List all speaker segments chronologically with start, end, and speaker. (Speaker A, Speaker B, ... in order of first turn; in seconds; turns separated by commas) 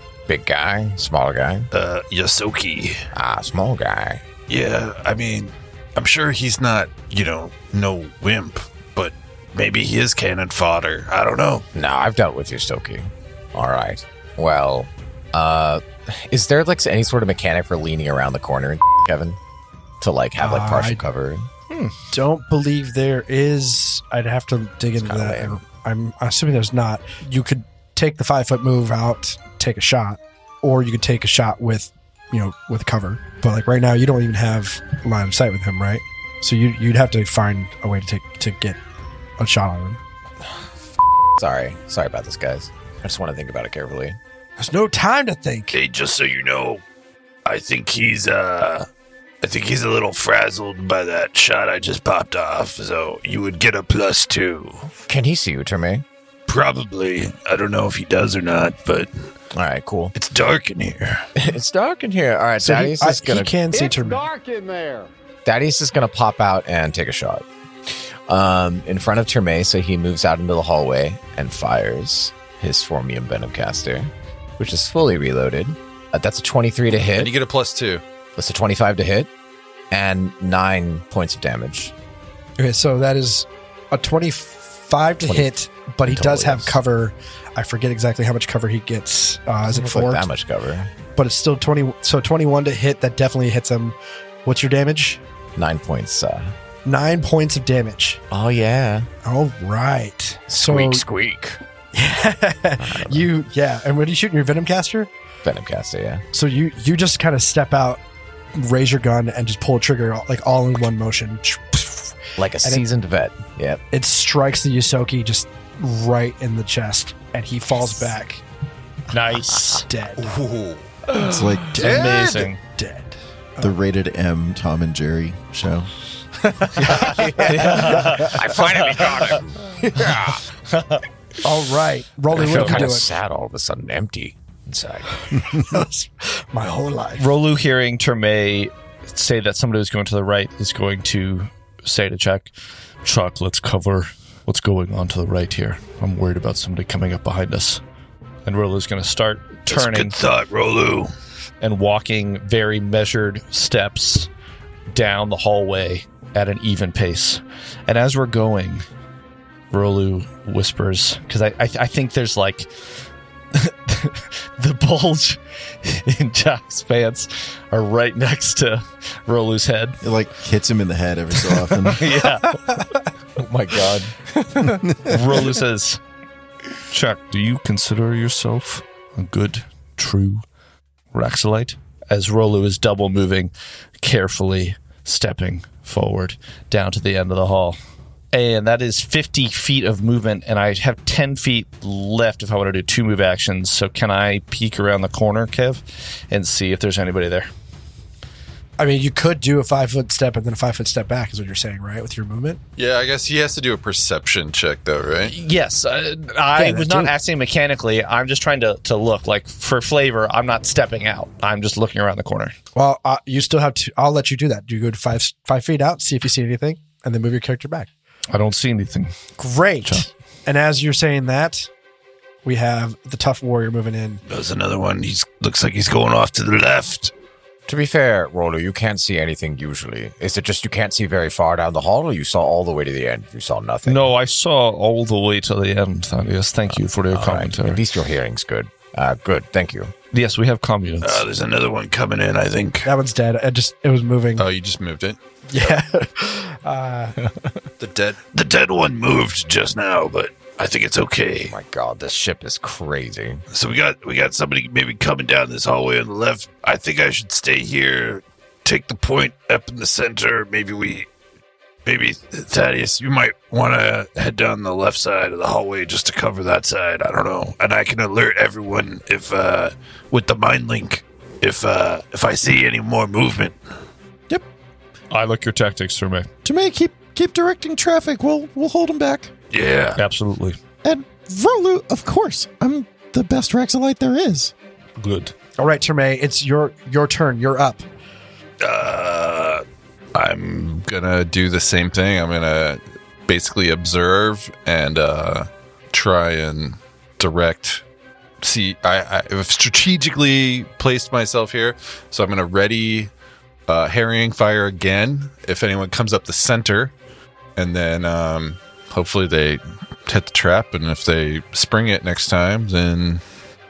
Speaker A: 0.3-1.7, Speaker B: 1.7-3.1, Speaker A: 3.1-4.2, Speaker B: 4.5-11.7, Speaker A: 11.7-19.4, Speaker A: 20.0-21.5, Speaker C: 20.4-21.0, Speaker C: 22.1-38.8, Speaker A: 25.0-25.6, Speaker C: 39.4-40.0, Speaker A: 41.4-44.2, Speaker C: 44.6-45.8, Speaker B: 45.7-46.8, Speaker B: 47.5-48.9, Speaker B: 49.4-54.9, Speaker A: 55.1-56.0, Speaker B: 56.5-59.1, Speaker A: 59.5-60.1, Speaker B: 60.1-61.2, Speaker A: 61.4-63.6, Speaker C: 62.6-64.3, Speaker A: 65.5-77.3, Speaker D: 77.2-78.0, Speaker A: 78.4-79.3, Speaker A: 79.9-81.9, Speaker C: 82.6-90.3, Speaker A: 85.2-85.5, Speaker A: 86.1-86.8, Speaker A: 89.7-90.9, Speaker C: 91.1-95.2, Speaker A: 95.6-96.5, Speaker C: 96.8-98.2, Speaker A: 98.3-99.1, Speaker C: 99.2-101.0, Speaker A: 100.5-101.6, Speaker C: 101.9-105.1, Speaker A: 102.8-103.3, Speaker A: 105.4-106.2, Speaker C: 106.3-108.0, Speaker C: 108.5-112.8, Speaker A: 112.4-113.8, Speaker C: 113.9-118.4, Speaker E: 119.1-119.9, Speaker C: 119.8-120.3, Speaker B: 120.3-120.8, Speaker F: 121.2-121.8, Speaker E: 121.2-122.6, Speaker C: 121.7-123.7, Speaker B: 121.9-122.2, Speaker F: 123.6-125.9, Speaker A: 126.8-130.4, Speaker E: 126.8-129.3, Speaker C: 126.8-127.3, Speaker E: 130.7-131.0, Speaker C: 131.4-133.1, Speaker A: 132.3-135.1, Speaker E: 132.4-132.8, Speaker C: 135.4-137.3, Speaker E: 137.2-142.5, Speaker E: 143.0-147.8, Speaker E: 148.4-150.2, Speaker B: 149.7-151.1, Speaker E: 151.6-154.3, Speaker E: 154.9-158.8, Speaker E: 159.7-162.7, Speaker E: 163.5-170.0, Speaker F: 170.0-172.2, Speaker E: 171.8-172.8, Speaker A: 173.4-174.1, Speaker E: 174.4-176.0, Speaker F: 174.9-175.1, Speaker E: 176.9-180.4, Speaker E: 181.1-187.8, Speaker E: 188.3-197.5, Speaker C: 198.8-202.6, Speaker D: 202.8-205.3, Speaker E: 205.3-212.5, Speaker C: 206.6-207.1, Speaker C: 212.8-217.9, Speaker E: 218.3-219.1, Speaker C: 219.4-221.7, Speaker C: 222.4-224.2, Speaker B: 224.3-227.1, Speaker A: 227.7-234.1, Speaker E: 233.9-237.8, Speaker A: 236.8-239.9, Speaker E: 240.1-241.3, Speaker B: 241.0-242.9, Speaker C: 242.9-244.5, Speaker D: 244.4-245.2, Speaker C: 245.5-247.2, Speaker D: 247.8-248.2, Speaker B: 248.2-251.5, Speaker A: 251.4-253.4, Speaker B: 253.5-261.1, Speaker B: 261.9-273.6, Speaker E: 275.1-276.3, Speaker F: 276.4-279.3, Speaker B: 279.5-280.0, Speaker E: 280.0-280.6, Speaker F: 280.8-284.5, Speaker E: 285.0-285.3, Speaker C: 285.6-287.8, Speaker B: 288.6-289.6, Speaker D: 290.2-297.8, Speaker D: 298.4-303.1, Speaker D: 303.7-306.9, Speaker D: 307.6-313.2